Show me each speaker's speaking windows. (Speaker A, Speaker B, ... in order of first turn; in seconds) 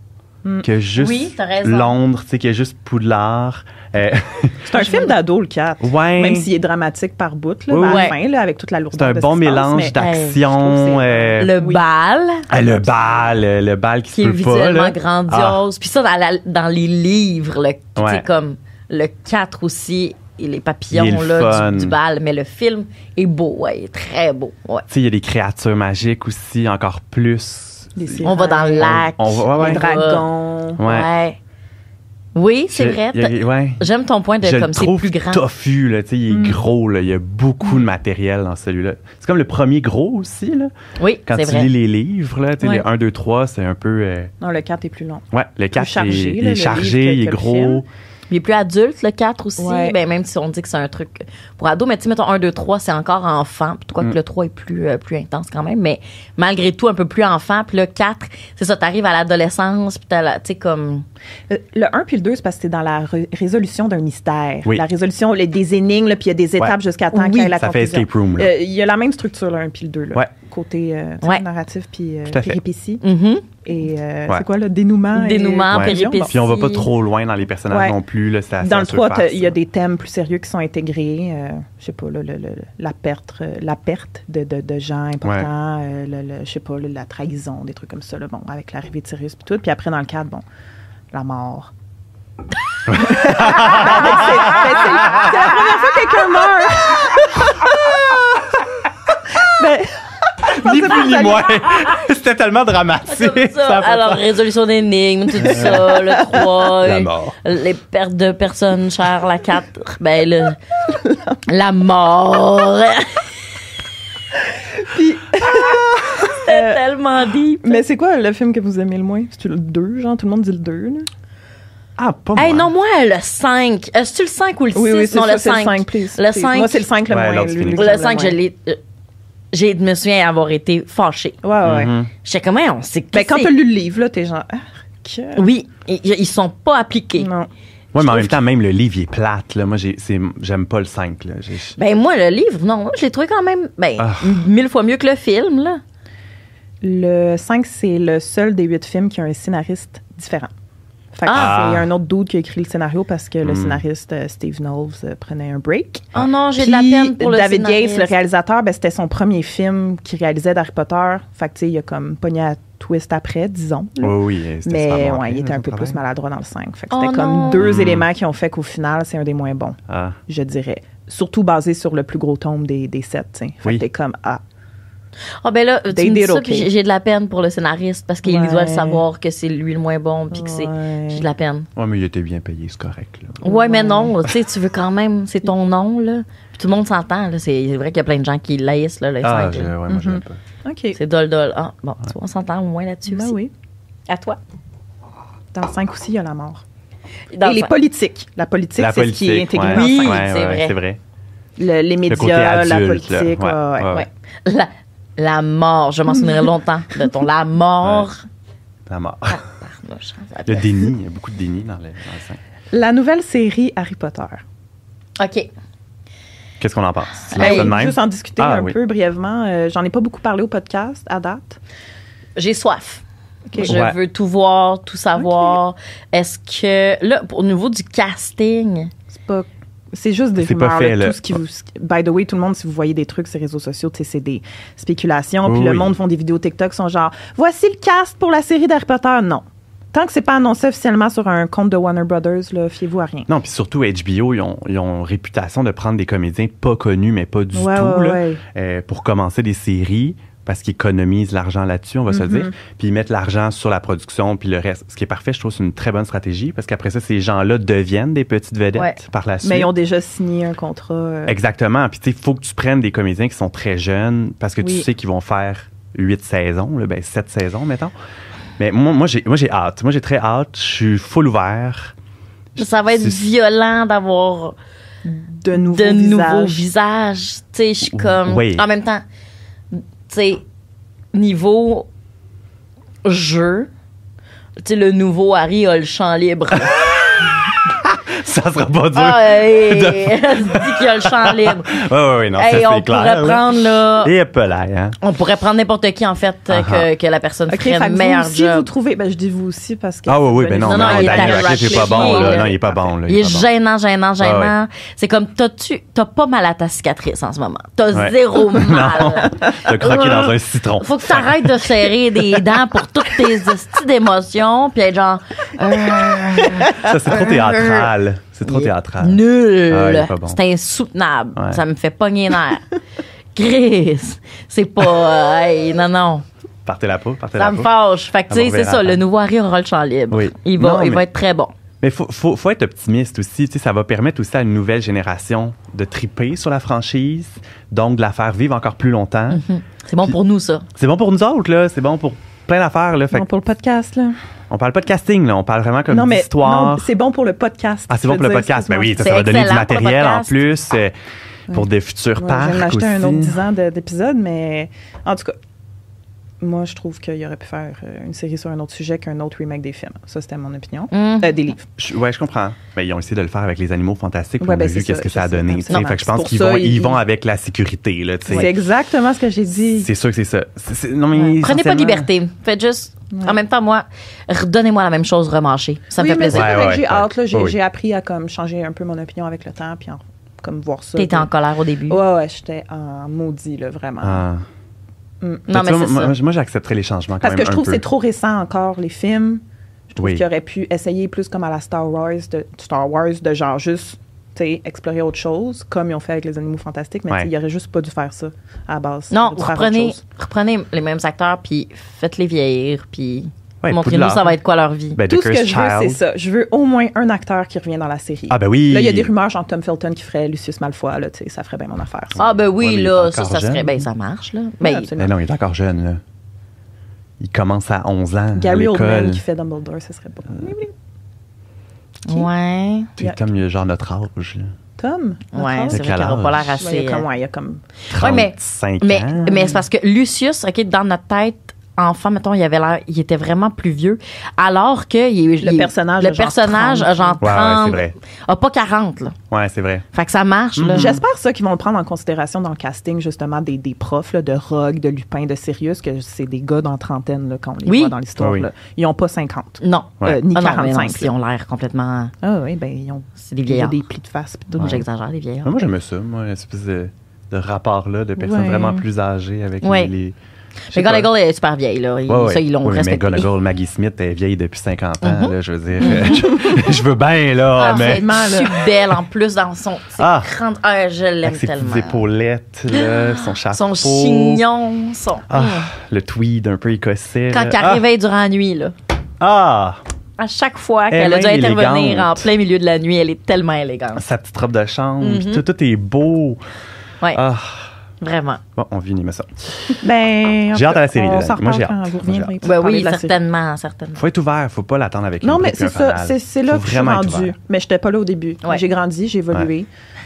Speaker A: 0.6-4.7, 5.8-6.5, 7.7-8.1, 8.9-11.5, 12.5-15.6, 18.0-18.2, 20.9-22.0, 24.9-29.8, 30.8-31.1, 32.7-33.9, 34.4-40.7, 41.3-44.3, 45.3-47.9, 67.4-68.5, 72.3-72.6, 75.7-79.6, 85.2-85.5, 92.9-95.6, 100.4-104.3, 105.3-107.4, 122.0-122.7, 127.1-128.0, 131.6-132.1, 137.9-141.8, 144.0-144.4, 151.3-151.9, 153.4-153.8, 164.0-166.0, 167.6-168.1, 169.9-170.2, 181.8-183.4, 189.2-190.4, 198.8-201.0, 202.1-204.1, 207.8-208.1, 208.9-209.4, 210.5-212.4, 216.6-218.8, 223.7-224.0, 230.4-231.4, 235.4-236.0, 243.3-259.7, 261.3-267.9, 268.6-271.9, 272.9-273.2, 277.9-278.6, 286.6-293.5, 294.0-295.0, 296.5-296.9, 300.1-303.5, 304.2-304.5, 307.9-312.5, 316.5-320.4, 321.4-321.6, 326.6-327.7, 328.3-329.0, 330.1-331.1, 331.8-339.4, 340.8-343.3, 344.5-346.9, 347.9-350.9, 351.5-353.4, 361.8-368.6, 369.8-372.1, 376.3-377.6, 384.0-384.4, 385.5-387.8, 390.0-390.2, 403.6-404.4, 404.9-406.0, 408.3-409.1, 412.2-413.9, 415.0-416.0, 417.2-419.2, 423.0-424.5, 425.7-426.5, 427.9-429.6, 437.2-437.9, 439.3-439.9, 440.6-441.0, 448.2-448.5, 454.6-454.9, 455.4-460.2, 460.7-461.1, 462.1-468.3, 470.0-470.3, 471.2-474.4, 475.3-477.9, 479.2-479.8, 480.9-482.3, 484.0-486.4, 487.1-487.7, 488.6-489.8, 490.5-492.4, 494.0-497.3
Speaker B: 1.0-2.0, 4.8-5.1, 7.8-8.2, 9.9-10.4, 11.4-12.8, 14.1-24.9, 28.2-30.2, 30.8-31.4, 32.4-35.4, 41.0-41.7, 48.3-61.0, 67.1-67.5, 73.0-73.5, 75.2-76.9, 103.1-110.6, 111.5-113.2, 116.3-117.8, 122.3-126.8, 127.7-128.8, 129.5-131.4, 132.2-133.5, 135.4-137.3, 138.0-138.3, 141.8-145.8, 151.2-151.6, 156.2-158.1, 166.9-167.7, 175.4-181.7, 183.4-189.7, 190.9-193.3, 194.1-194.4, 197.3-197.8, 199.7-200.8, 203.9-208.2, 209.3-210.9, 215.2-215.5, 217.3-217.7, 222.4-223.0, 223.5-228.9, 272.6-274.6, 275.6-279.0, 279.7-280.4, 281.1-281.9, 283.0-283.7, 284.6-287.3, 288.9-294.1, 295.0-298.7, 300.7-317.9, 318.5-322.7, 323.4-326.2, 327.4-331.5, 339.3-340.7, 349.0-350.4, 360.9-361.4, 371.3-376.7, 381.0-382.0, 385.5-386.2, 399.1-405.0, 412.2-414.9, 422.1-422.9, 425.3-427.1, 427.9-439.2, 439.9-440.9, 447.7-447.9, 449.6-452.1, 453.2-453.8, 454.5-455.6, 459.6-459.9, 460.7-463.3, 465.0-466.5, 467.6-472.0, 472.7-475.7, 477.3-478.7, 480.2-484.0, 485.0-485.4, 488.0-488.4, 492.4-494.0
Speaker C: 4.7-11.8, 28.0-30.8, 36.3-36.6, 44.4-47.8, 49.6-50.0, 61.5-73.0, 73.6-76.3, 77.7-78.0, 78.6-90.4, 91.1-91.7, 93.0-98.2, 99.4-101.7, 105.9-106.4, 111.0-111.4, 114.5-116.8, 117.6-121.1, 124.8-128.4, 131.4-131.9, 133.1-135.4, 137.2-137.5, 146.8-150.5, 151.1-174.4, 175.9-176.7, 178.2-179.1, 180.3-181.2, 183.4-184.1, 189.9-191.0, 193.1-193.5, 195.5-196.6, 197.4-200.3, 201.6-204.0, 212.7-214.4, 217.4-221.6, 223.5-223.8, 225.2-225.6, 229.1-243.3, 247.5-248.4, 252.1-252.5, 259.4-261.4, 264.6-264.9, 275.1-276.7, 297.5-302.8, 343.1-344.1, 345.9-349.1, 352.2-355.4, 356.4-361.7, 364.4-367.0, 368.3-369.9, 376.0-381.3, 381.9-384.2, 385.2-385.5, 387.2-400.0, 405.1-412.2, 414.6-415.1, 418.4-420.7, 424.8-427.6, 429.2-429.6, 435.4-437.2, 440.7-451.1, 452.2-454.8, 458.2-458.8, 466.0-466.6, 467.6-468.7, 489.8-493.1, 495.2-499.7